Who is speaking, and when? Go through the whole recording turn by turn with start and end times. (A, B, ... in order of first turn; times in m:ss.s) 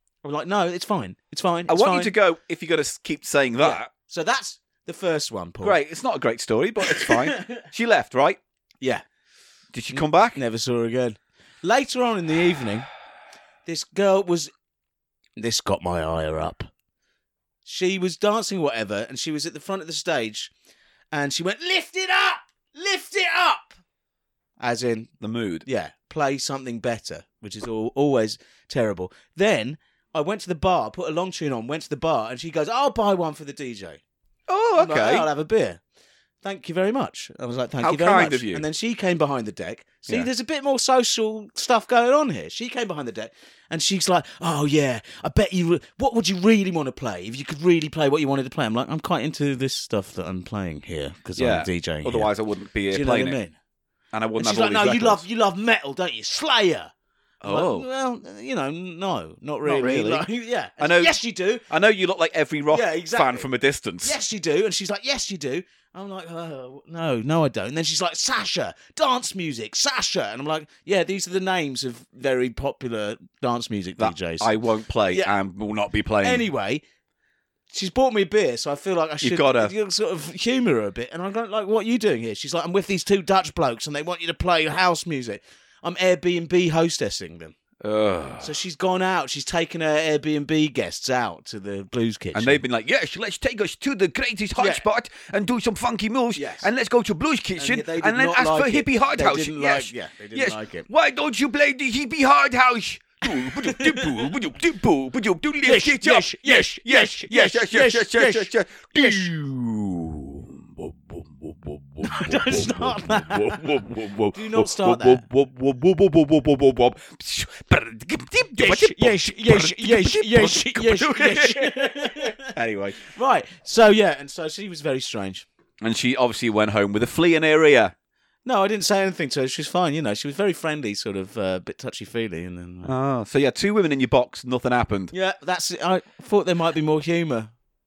0:00.2-0:02.1 A
0:01.7-0:03.9 B
0:03.6-0:05.8 A
0:05.6-0:08.4 B
0:06.8-0:07.6 A
0:09.7-0:10.4 B
0:09.9-0:12.9 A
0:13.6-0:14.5 A
0:15.4-0:16.7 A
0:17.6-0:20.5 A
0:21.1-0:23.8 A
0:24.6-0:25.1 A
0:25.2-0:25.6 B
0:25.6-0:34.0 A
0:34.5-0:35.3 B
0:34.8-0:35.8 A
0:36.4-0:52.3 A
0:37.8-0:38.6 B
0:51.4-0:53.4 B
0:52.9-0:53.6 A
0:54.1-0:55.2 B
0:54.4-0:56.9 A
0:57.4-0:57.9 B
0:57.4-1:01.6 A
0:59.6-1:00.2 B
1:00.8-1:01.2 B
1:01.7-1:04.2 B
1:02.7-1:03.5 A
1:04.0-1:14.5 A
1:14.0-1:16.5 B
1:16.2-1:16.8 A
1:17.7-1:27.6 A
1:19.2-1:19.7 B
1:27.8-1:28.5 B
1:28.4-1:32.6 A
1:32.3-2:03.0 B
1:34.6-1:34.8 A
1:36.3-1:36.7 A
1:37.6-1:40.9 A
1:43.4-1:44.3 A
1:45.6-1:49.3 A
1:52.0-1:53.7 A
1:54.3-1:55.2 A
1:58.6-2:05.4 A
2:05.8-2:07.9 B
2:08.4-2:12.9 A
2:12.8-2:15.1 B
2:15.1-2:17.5 A